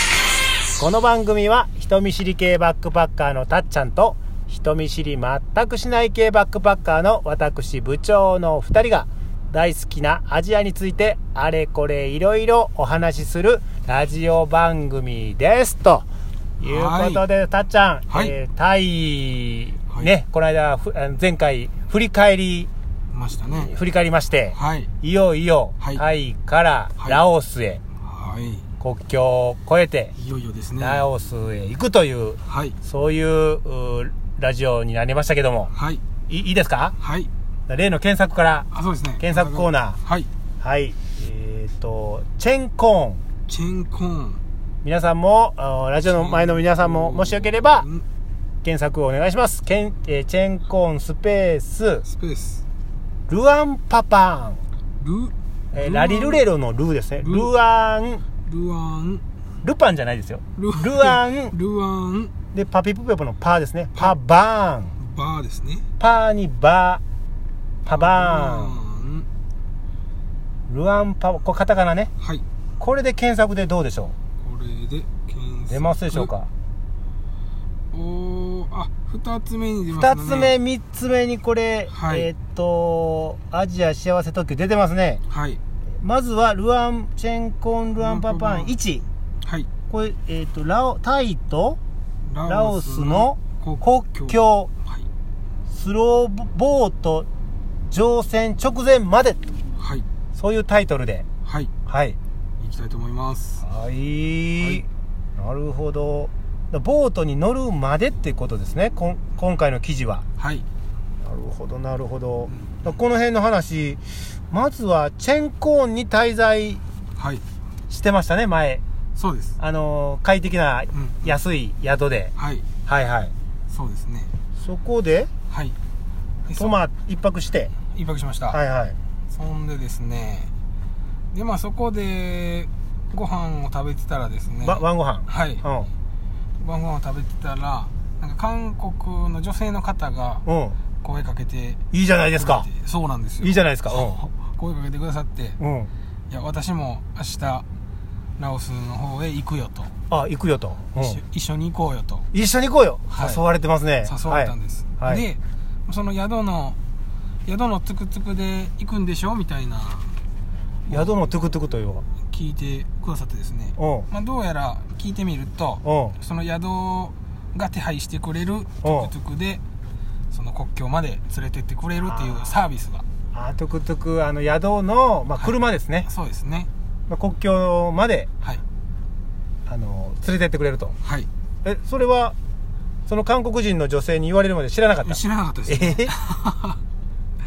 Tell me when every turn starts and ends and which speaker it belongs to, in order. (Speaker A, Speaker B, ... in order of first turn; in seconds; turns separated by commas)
Speaker A: 0.8-16.1, Speaker A: 16.6-22.7, Speaker B: 16.6-17.2, Speaker B: 18.1-18.3, Speaker B: 23.1-23.7, Speaker A: 23.5-27.8, Speaker B: 24.5-24.9, Speaker B: 28.0-28.6, Speaker A: 28.8-30.1, Speaker B: 30.1-31.1, Speaker A: 30.8-35.7, Speaker B: 32.5-32.8, Speaker B: 35.7-36.0, Speaker A: 36.3-37.0, Speaker B: 37.0-37.3, Speaker A: 37.7-38.7, Speaker B: 38.7-40.3, Speaker A: 39.2-40.0, Speaker A: 40.6-43.2, Speaker B: 43.5-44.4, Speaker A: 44.8-47.9, Speaker B: 46.0-48.0, Speaker A: 48.6-52.0, Speaker B: 52.1-52.6, Speaker A: 53.3-54.6, Speaker B: 55.0-56.5, Speaker A: 55.7-58.2, Speaker B: 57.2-57.5, Speaker B: 58.5-59.2, Speaker A: 59.6-61.5, Speaker B: 60.5-62.3, Speaker A: 62.5-64.9, Speaker B: 65.0-65.8, Speaker A: 66.0-67.0, Speaker A: 67.8-68.8, Speaker B: 67.9-69.3, Speaker A: 70.7-72.1, Speaker B: 72.2-72.4, Speaker A: 72.8-74.1, Speaker B: 74.4-76.3, Speaker A: 75.7-76.5, Speaker B: 77.9-80.5, Speaker A: 79.9-85.2, Speaker B: 81.9-82.3, Speaker B: 85.3-85.6, Speaker A: 86.0-89.0, Speaker B: 88.0-88.7, Speaker B: 89.4-89.7, Speaker A: 89.9-91.8, Speaker B: 92.3-95.1, Speaker A: 92.5-94.7, Speaker A: 95.7-97.3, Speaker A: 97.9-99.4, Speaker B: 99.8-100.0, Speaker A: 100.3-101.2, Speaker B: 101.4-101.7, Speaker A: 101.8-102.2, Speaker B: 102.6-103.6, Speaker A: 103.6-110.2, Speaker B: 110.4-110.6, Speaker A: 111.2-116.8, Speaker B: 112.5-112.8, Speaker B: 117.2-117.4, Speaker A: 117.9-118.8, Speaker B: 119.2-119.5, Speaker A: 119.6-122.3, Speaker B: 120.9-121.3, Speaker B: 122.3-122.7, Speaker A: 122.8-123.3, Speaker B: 123.7-124.3, Speaker A: 124.6-125.3, Speaker B: 125.5-125.8, Speaker B: 126.5-126.8, Speaker A: 126.5-127.7, Speaker B: 127.9-128.6, Speaker A: 128.5-129.0, Speaker B: 129.3-130.5, Speaker B: 131.3-135.7, Speaker A: 134.6-135.9, Speaker B: 136.6-140.4, Speaker A: 140.4-140.8, Speaker B: 141.0-141.8, Speaker A: 141.9-142.7, Speaker B: 142.3-145.6, Speaker A: 143.4-144.2, Speaker A: 145.6-145.9, Speaker B: 146.3-147.7, Speaker B: 148.4-149.9, Speaker A: 150.1-151.2, Speaker B: 151.0-152.3, Speaker A: 152.3-155.2, Speaker B: 153.1-153.4, Speaker B: 154.0-156.8, Speaker B: 157.4-160.2, Speaker A: 160.9-162.1, Speaker B: 162.3-169.6, Speaker A: 163.8-164.1, Speaker A: 165.8-166.2, Speaker A: 168.8-169.1, Speaker B: 170.3-173.0, Speaker A: 172.0-172.5, Speaker A: 173.3-176.1, Speaker B: 176.0-176.7, Speaker A: 177.1-178.3, Speaker A: 179.7-180.9, Speaker B: 181.0-181.3, Speaker A: 181.6-182.3, Speaker A: 183.1-186.1, Speaker B: 185.0-186.8